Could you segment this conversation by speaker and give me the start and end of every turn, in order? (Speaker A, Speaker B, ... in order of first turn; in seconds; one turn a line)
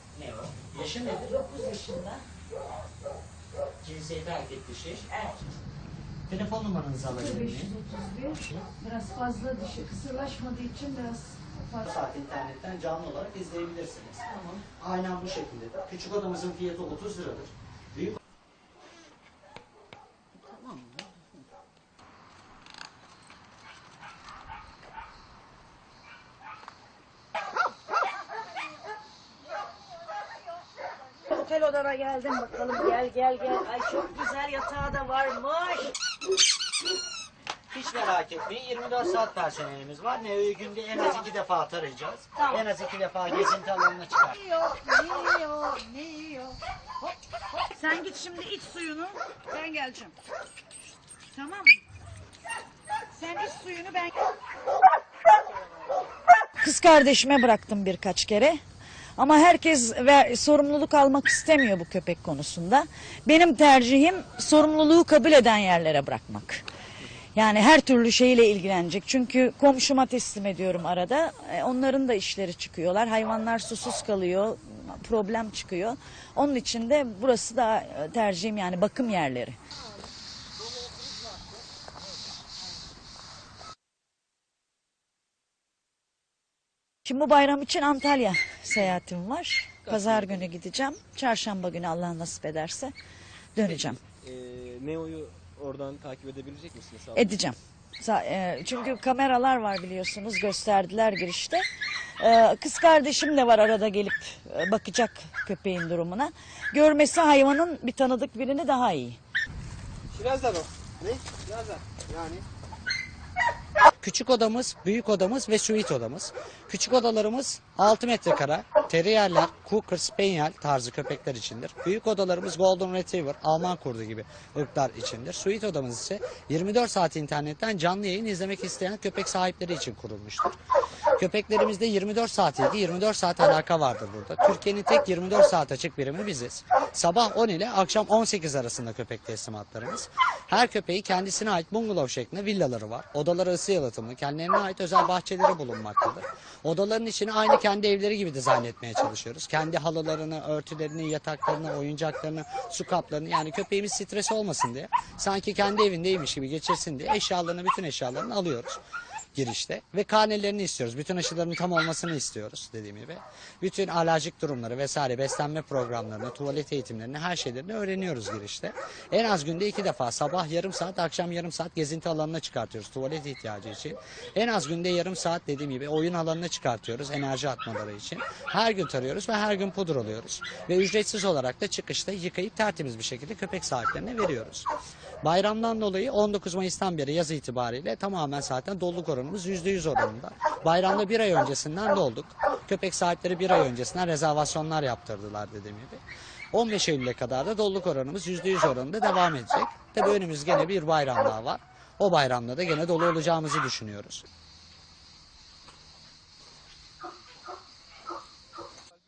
Speaker A: 0.1-1.3
Speaker B: 1.2-2.2
Speaker A: 3.8-5.1
Speaker A: 6.3-7.8
Speaker B: 7.1-11.8
Speaker A: 8.4-8.7
Speaker A: 11.7-18.2
Speaker B: 14.2-14.6
Speaker B: 20.4-21.2
Speaker B: 31.3-35.9
Speaker A: 37.7-44.4
Speaker B: 41.0-41.2
Speaker B: 42.4-42.6
Speaker B: 44.3-46.6
Speaker B: 47.5-50.1
Speaker B: 51.3-51.8
Speaker B: 53.1-54.2
Speaker B: 56.6-58.6
Speaker B: 59.2-66.6
Speaker B: 67.3-79.5
Speaker B: 87.0-92.9
Speaker C: 89.8-90.5
Speaker B: 93.5-94.0
Speaker C: 93.7-97.3
Speaker B: 97.1-101.6
Speaker B: 102.2-109.2
Speaker C: 110.1-112.4
Speaker A: 114.0-130.6
Speaker A: 131.2-158.8
Speaker A: 159.3-184.7
Speaker A: 185.2-204.2